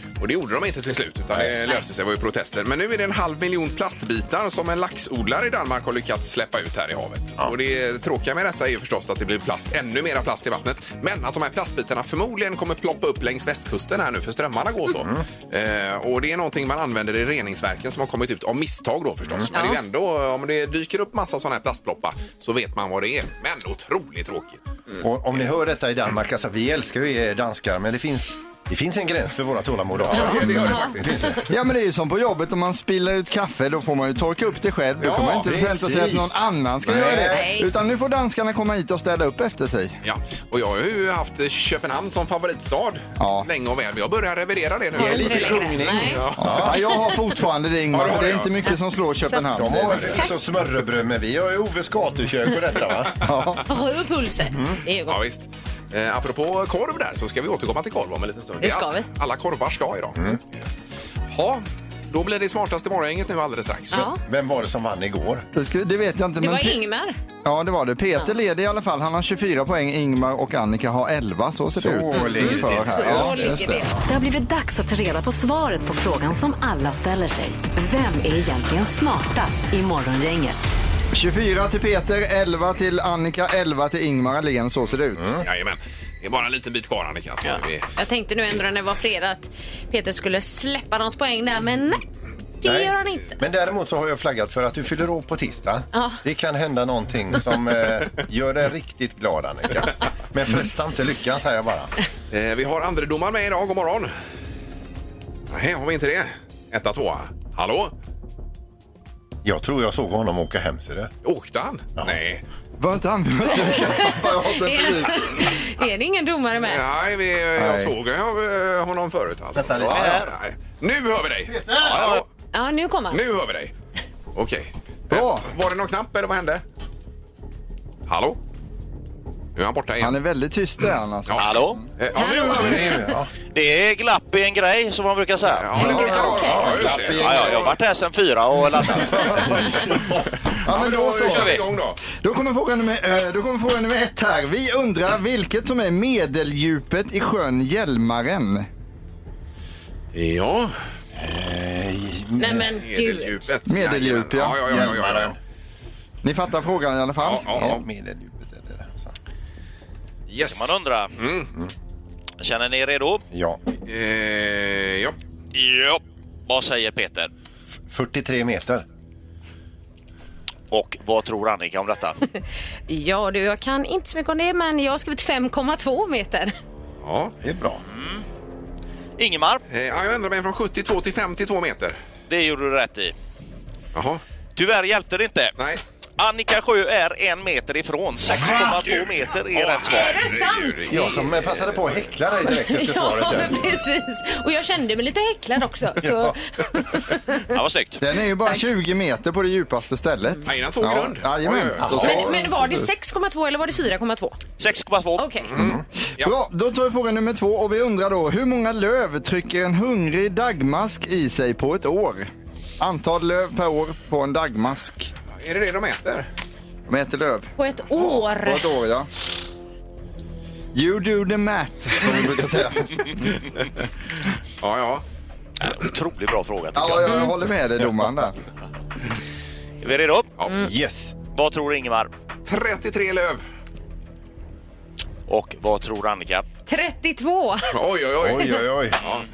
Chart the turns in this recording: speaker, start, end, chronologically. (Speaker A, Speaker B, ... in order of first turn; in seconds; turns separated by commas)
Speaker A: 0.2-24.6, Speaker B: 15.0-15.2, Speaker C: 19.5-19.8, Speaker B: 25.0-31.5, Speaker A: 30.0-31.1, Speaker C: 30.2-31.4, Speaker D: 31.5-40.0, Speaker A: 35.0-35.5, Speaker B: 35.4-37.6, Speaker C: 36.9-37.7, Speaker A: 40.0-46.7, Speaker D: 43.2-43.5, Speaker B: 44.9-46.9, Speaker C: 45.0-46.2, Speaker D: 46.4-50.1, Speaker A: 47.9-48.5, Speaker C: 48.7-49.5, Speaker B: 49.5-53.2, Speaker A: 49.9-50.2, Speaker D: 53.2-53.6, Speaker C: 53.7-55.2, Speaker B: 54.5-54.8, Speaker A: 55.1-60.4, Speaker C: 58.6-59.1, Speaker A: 61.3-64.1, Speaker C: 63.9-64.2, Speaker B: 63.9-65.5, Speaker D: 65.5-66.8, Speaker C: 66.4-67.2, Speaker D: 67.5-73.9, Speaker B: 71.8-73.6, Speaker C: 72.1-74.0, Speaker E: 74.1-80.6, Speaker D: 81.1-85.3, Speaker B: 85.2-85.5, Speaker A: 85.4-87.9, Speaker C: 87.5-92.0, Speaker C: 92.6-93.4, Speaker B: 92.6-101.9, Speaker C: 95.9-96.2, Speaker A: 102.3-104.1, Speaker A: 105.5-107.9, Speaker B: 109.4-111.1, Speaker A: 111.2-112.4, Speaker D: 112.8-115.3, Speaker C: 113.5-116.8, Speaker A: 116.6-122.2, Speaker D: 117.6-117.9, Speaker B: 119.5-120.2, Speaker F: 119.9-120.3, Speaker B: 121.5-122.1, Speaker F: 121.9-122.2, Speaker C: 122.5-123.2, Speaker A: 123.1-123.7, Speaker A: 124.3-126.6, Speaker D: 125.1-125.5, Speaker A: 128.1-128.4, Speaker A: 129.6-130.2, Speaker D: 130.0-131.8, Speaker A: 131.3-133.1, Speaker F: 131.4-131.8, Speaker C: 132.1-133.1, Speaker B: 132.4-133.3, Speaker F: 133.5-136.0, Speaker A: 135.5-137.7, Speaker D: 135.8-136.5, Speaker C: 135.9-136.7, Speaker B: 135.9-137.7, Speaker F: 136.8-139.7, Speaker D: 140.7-141.6, Speaker A: 140.7-142.0, Speaker F: 141.2-141.6, Speaker D: 142.1-148.7, Speaker A: 150.1-150.8, Speaker B: 151.2-152.7, Speaker C: 152.4-153.4, Speaker A: 152.8-155.4, Speaker D: 153.7-154.6, Speaker B: 154.7-155.4, Speaker D: 156.2-157.8, Speaker A: 157.2-157.8, Speaker B: 157.5-159.1, Speaker A: 160.3-161.5, Speaker F: 160.5-161.2, Speaker F: 162.4-163.2, Speaker B: 163.3-163.6, Speaker A: 163.9-165.2, Speaker F: 165.5-167.3, Speaker B: 167.9-168.8, Speaker F: 170.7-172.2, Speaker C: 172.9-176.5, Speaker A: 177.0-177.3, Speaker B: 177.4-177.8, Speaker F: 177.9-178.2, Speaker F: 179.2-179.6, Speaker A: 179.7-182.0, Speaker F: 182.3-183.1, Speaker A: 183.9-184.2, Speaker F: 184.6-185.5, Speaker F: 186.2-190.2, Speaker A: 188.3-192.0, Speaker C: 189.9-191.3, Speaker B: 190.9-193.6, Speaker C: 192.4-197.5, Speaker B: 196.0-196.4, Speaker F: 197.5-198.0, Speaker D: 198.0-202.9, Speaker A: 200.5-202.3, Speaker B: 201.8-202.3, Speaker C: 202.0-204.4, Speaker F: 204.6-205.3, Speaker C: 205.2-205.6, Speaker A: 205.5-206.3, Speaker B: 205.6-205.8, Speaker D: 206.2-215.1, Speaker A: 215.4-216.3, Speaker D: 216.9-219.1, Speaker C: 217.6-218.7, Speaker D: 220.7-223.1, Speaker A: 224.6-225.0, Speaker F: 225.6-227.3, Speaker D: 226.8-228.4, Speaker F: 229.8-230.3, Speaker C: 230.5-230.7, Speaker B: 230.6-231.1, Speaker F: 231.2-232.1, Speaker A: 232.5-233.4, Speaker F: 235.3-236.5, Speaker C: 236.7-237.7, Speaker A: 237.7-239.3, Speaker B: 238.2-239.0